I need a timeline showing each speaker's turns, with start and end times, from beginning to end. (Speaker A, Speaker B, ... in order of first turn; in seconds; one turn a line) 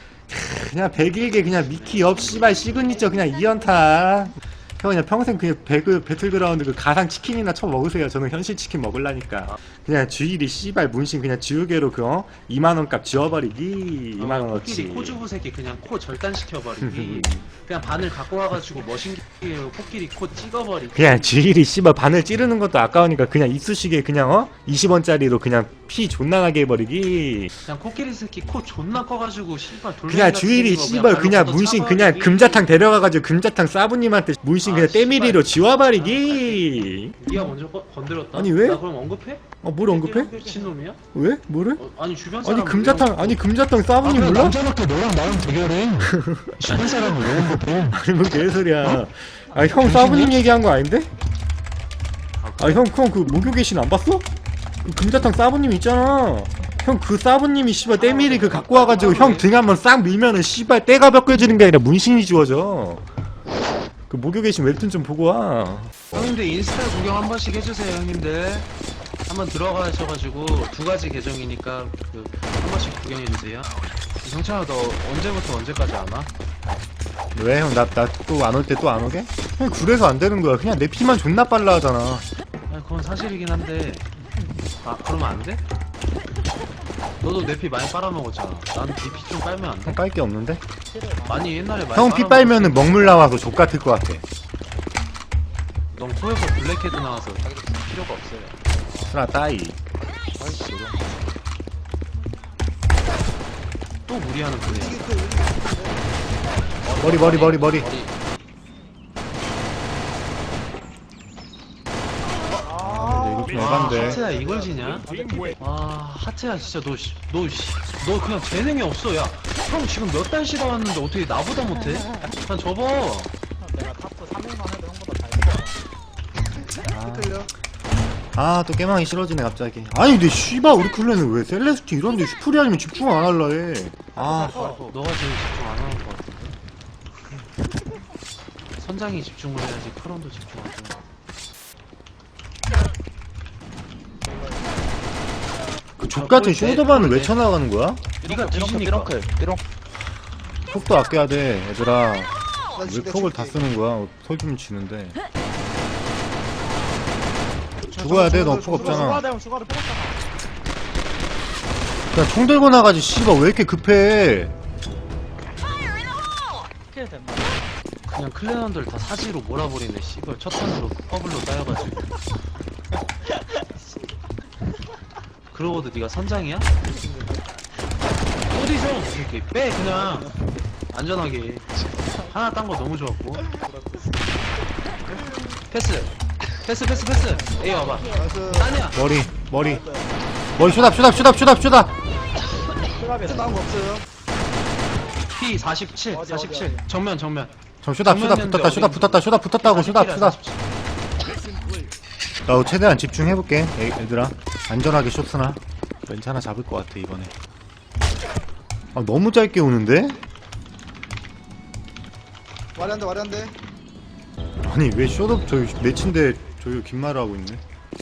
Speaker A: 0.3-15.2
Speaker B: 1.6-2.7
Speaker B: 14.2-21.4
Speaker A: 16.8-17.5
Speaker A: 20.9-27.5
Speaker B: 27.6-32.7
Speaker A: 30.1-37.3
Speaker B: 34.6-41.0
Speaker A: 38.3-38.8
Speaker A: 39.6-40.3
Speaker C: 40.0-40.8
Speaker A: 41.1-41.8
Speaker B: 41.8-43.4
Speaker A: 42.4-44.6
Speaker B: 44.0-48.0
Speaker A: 46.0-51.1
Speaker B: 49.8-50.4
Speaker B: 52.4-52.9
Speaker A: 52.6-54.2
Speaker A: 54.8-63.0
Speaker B: 58.0-59.5
Speaker C: 58.1-59.3
Speaker A: 64.1-66.1
Speaker B: 66.1-68.7
Speaker B: 69.3-73.7
Speaker B: 74.2-76.3
Speaker A: 77.3-82.3
Speaker B: 79.6-80.0
Speaker B: 82.7-84.1
Speaker B: 84.8-85.6
Speaker B: 87.2-90.0
Speaker A: 89.8-90.6
Speaker C: 90.9-91.7
Speaker B: 91.2-93.3
Speaker A: 91.9-94.2
Speaker B: 95.9-99.2
Speaker D: 97.4-97.9
Speaker A: 99.0-99.8
Speaker D: 100.1-101.0
Speaker B: 104.1-105.1
Speaker E: 104.6-106.0
Speaker D: 106.8-108.1
Speaker A: 107.0-107.9
Speaker C: 112.5-115.6
Speaker A: 112.8-114.2
Speaker B: 113.5-123.3
Speaker E: 113.9-115.1
Speaker C: 123.6-125.8
Speaker A: 126.8-127.5
Speaker E: 127.0-127.5
Speaker A: 128.3-134.8
Speaker C: 134.1-134.9
Speaker B: 134.4-136.6
Speaker B: 138.8-141.0
Speaker E: 144.2-144.8
Speaker A: 146.0-148.1
Speaker B: 146.1-147.5
Speaker B: 148.2-149.1
Speaker D: 148.2-149.6
Speaker A: 150.7-152.3
Speaker E: 152.8-153.6
Speaker A: 152.8-155.2
Speaker E: 157.9-159.2
Speaker A: 157.9-159.2
Speaker C: 158.7-160.2
Speaker A: 162.1-164.5
Speaker C: 166.9-167.7
Speaker B: 168.1-172.1
Speaker B: 175.5-176.7
Speaker E: 176.9-177.4
Speaker B: 178.5-180.3
Speaker B: 180.9-183.6
Speaker C: 183.6-184.1
Speaker B: 185.7-189.0
Speaker C: 187.3-187.9
Speaker E: 188.1-188.8
Speaker A: 188.9-189.8
Speaker C: 189.6-190.1
Speaker A: 190.5-191.9
Speaker C: 193.0-193.6
Speaker E: 193.2-194.1
Speaker B: 195.3-197.5
Speaker C: 196.1-196.8
Speaker A: 197.8-200.4
Speaker B: 198.0-200.6
Speaker A: 202.4-207.3
Speaker A: 208.9-210.2
Speaker E: 212.8-213.5
Speaker A: 214.6-217.6